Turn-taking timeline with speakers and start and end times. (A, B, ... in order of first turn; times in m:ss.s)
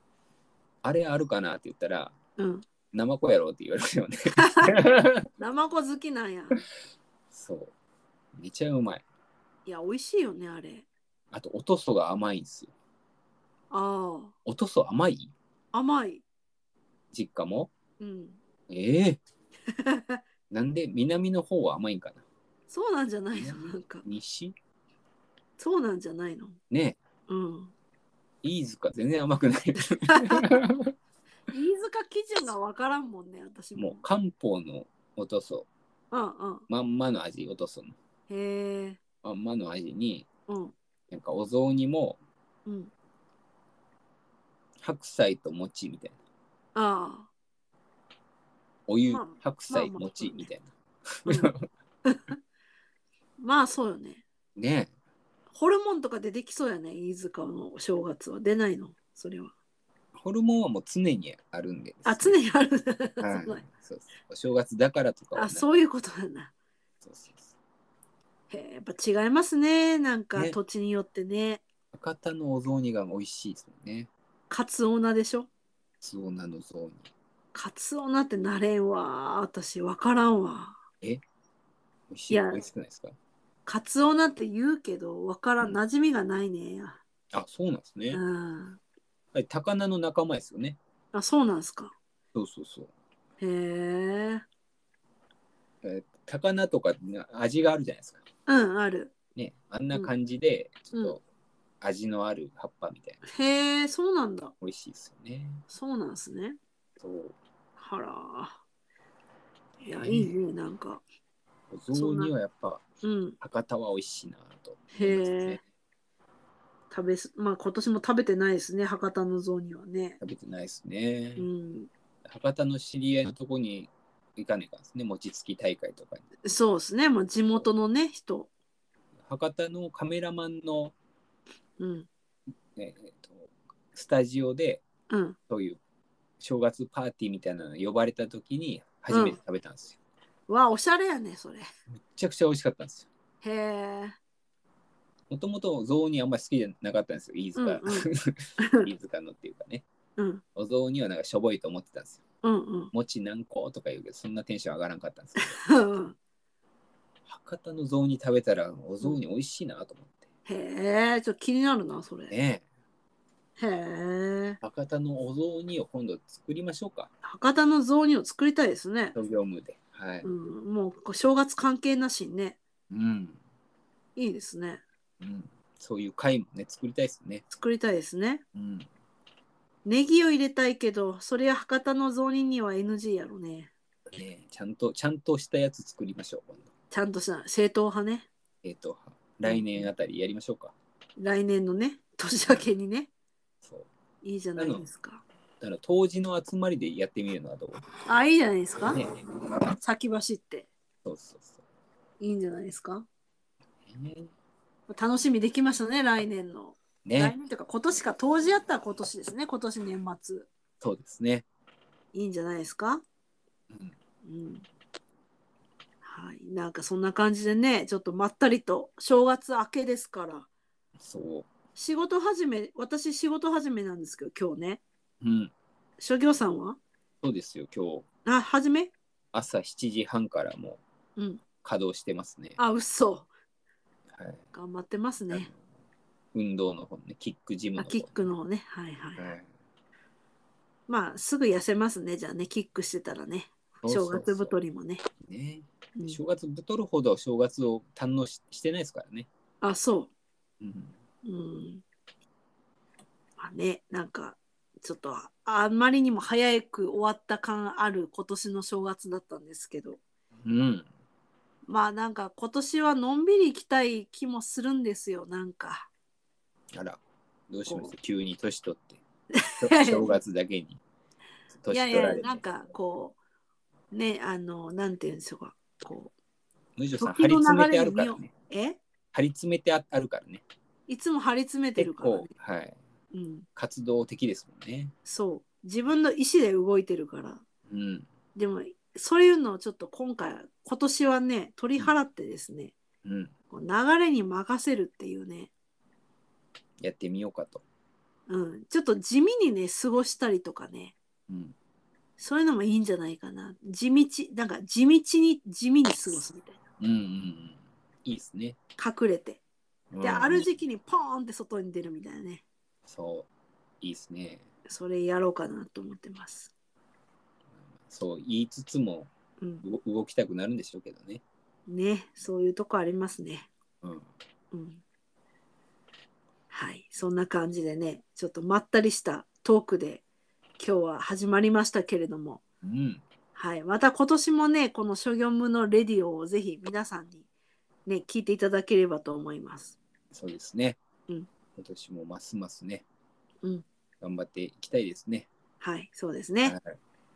0:00.8-0:02.2 A
0:02.4-0:02.6 B
0:02.9-0:05.3 A
0:04.4-0:04.8 B
0:05.4-0:06.6 B
0:07.3-0:07.7 A
0:08.4-0:09.0 A
0:09.7-0:10.9 B
0:11.3-0:12.7 A
0:13.7-0:14.3 B
0:14.5-0:15.3 A
0:15.7-0:16.2 B
0:17.1-0:17.7 A
0:18.0-0:18.4 B
0:18.7-0:19.2 A
0:19.7-0:20.2 B
0:20.5-0:22.2 A
0:22.7-0:24.0 B
0:23.4-0:24.6 A
0:25.6-0:26.6 B
0:26.7-0:27.0 A
0:27.3-0:27.7 B
0:28.4-0:30.9 A
0:31.5-0:34.0 B
0:33.8-0:35.7 A
0:36.1-0:36.7 B
0:36.7-0:38.0 A
0:38.3-0:39.0 B
0:39.2-0:40.3 A
0:40.5-0:40.8 B
0:41.1-0:42.2 A
0:42.7-0:42.9 B
0:44.8-0:46.2 A
0:46.8-0:47.3 B
0:48.9-0:51.6 A
0:49.1-0:50.5 B
0:51.3-0:51.5 B
0:52.0-0:52.4 B
0:53.4-0:54.2 B
0:54.6-0:54.9 A
0:55.5-0:59.5 B
1:00.2-1:02.4 A
1:02.0-1:03.6 B
1:03.2-1:05.6 A
1:05.4-1:06.5 B
1:07.0-1:07.5 A
1:08.5-1:11.6 B
1:11.9-1:14.1 A
1:14.5-1:15.5 B
1:16.0-1:17.1 A
1:17.5-1:20.8 B
1:22.1-1:23.1 A
1:22.3-1:22.6 B
1:23.7-1:27.0 B
1:27.3-1:28.2 A
1:28.1-1:28.8 B
1:29.3-1:30.8 A
1:31.1-1:32.0 B
1:32.3-1:32.9 A
1:33.4-1:34.4 B
1:35.8-1:38.2 A
1:38.5-1:39.1 B
1:39.4-1:41.2 A
1:41.8-1:43.2 A
1:43.3-1:44.5 B
1:44.6-1:45.6 A
1:45.7-1:46.6 B
1:47.0-1:47.4 A
1:47.8-1:48.6 B
1:49.8-1:51.0 B
1:50.0-1:50.4 A
1:51.7-1:52.8 A
1:51.9-1:52.3 B
1:53.0-1:53.4 B
1:53.4-1:55.6 A
1:54.9-1:55.6 B
1:56.9-2:00.2 B
2:00.2-2:01.5 A
2:01.4-2:01.9 B
2:02.2-2:06.2 A
2:06.4-2:08.5 B
2:09.2-2:10.9 A
2:11.8-2:12.1 B
2:12.8-2:14.8 A
2:15.1-2:15.4 B
2:15.5-2:15.8 A
2:16.4-2:20.0 A
2:19.1-2:19.4 B
2:20.5-2:21.7 B
2:21.9-2:23.1 A
2:23.4-2:24.2 B
2:25.3-2:29.8 A
2:27.6-2:28.1 B
2:28.6-2:28.9 B
2:30.2-2:30.4 B
2:30.6-2:32.2 A
2:32.4-2:32.9 B
2:32.9-2:35.6 A
2:35.4-2:36.2 B
2:37.2-2:40.2 A
2:40.5-2:42.3 B
2:42.3-2:42.6 A
2:43.6-2:44.6 B
2:44.6-2:47.1 A
2:47.2-2:49.2 B
2:49.2-2:50.3 A
2:50.2-2:52.6 B
2:52.9-2:53.4 A
2:54.2-2:54.8 B
2:55.2-2:57.4 A
2:57.5-2:58.4 B
2:58.6-2:58.9 A
2:59.8-3:03.7 B
3:04.1-3:06.7 A
3:06.9-3:08.3 B
3:08.6-3:10.7 A
3:09.5-3:09.9 B
3:11.2-3:13.1 B
3:13.6-3:13.9 A
3:14.2-3:15.2 B
3:14.6-3:14.8 A
3:15.6-3:17.8 A
3:18.1-3:19.0 B
3:18.9-3:19.2 A
3:19.8-3:20.7 B
3:21.0-3:21.6 A
3:22.2-3:23.1 B
3:23.9-3:24.3 A
3:24.9-3:30.5 B
3:27.0-3:27.4 A
3:30.8-3:31.5 A
3:32.1-3:33.0 B
3:34.2-3:34.7 B
3:36.0-3:40.5 B
3:41.0-3:41.5 A
3:41.8-3:44.8 B
3:45.2-3:45.5 A
3:46.0-3:46.8 B
3:47.2-3:48.0 A
3:48.3-3:48.9 B
3:49.3-3:50.8 A
3:51.2-3:51.4 B
3:51.6-3:52.6 A
3:52.6-3:53.3 B
3:54.1-3:54.4 A
3:54.5-3:55.5 B
3:56.3-3:58.3 A
3:57.8-3:59.3 B
3:59.2-3:59.5 A
4:00.9-4:05.0 B
4:03.8-4:04.6 A
4:05.2-4:09.3 A
4:09.6-4:10.1 B
4:10.6-4:11.0 A
4:11.2-4:11.8 B
4:13.4-4:20.0 B
4:20.4-4:20.9 A
4:21.7-4:25.9 B
4:26.8-4:29.0 A
4:27.7-4:27.9 B
4:29.3-4:30.1 B
4:29.6-4:30.8 A
4:31.6-4:32.4 A
4:31.7-4:33.2 B
4:33.9-4:36.1 B
4:36.8-4:38.3 A
4:37.0-4:38.8 B
4:39.1-4:40.4 A
4:40.9-4:42.3 B
4:41.8-4:42.8 A
4:43.1-4:43.5 B
4:43.6-4:44.9 A
4:45.1-4:47.4 B
4:47.7-4:48.1 A
4:48.4-4:52.8 B
4:53.0-4:53.3 A
4:53.5-4:55.5 B
4:56.8-4:57.6 A
4:58.3-5:01.0 B
5:01.3-5:01.6 A
5:02.2-5:06.6 B
5:06.8-5:08.6 A
5:08.8-5:09.4 B
5:09.9-5:10.5 A
5:10.0-5:12.4 B
5:12.8-5:13.3 A
5:13.8-5:14.4 A
5:14.7-5:16.5 B
5:17.6-5:19.1 A
5:19.6-5:21.2 A
5:21.7-5:23.5 B
5:23.8-5:24.1 A
5:24.5-5:24.8 B
5:26.5-5:30.0 B
5:30.6-5:32.4 B
5:32.6-5:33.0 A
5:33.4-5:37.3 B
5:37.9-5:39.8 B
5:40.1-5:40.8 A
5:41.6-5:42.8 A
5:44.0-5:45.3 A
5:45.6-5:46.6 B
5:46.4-5:46.8 A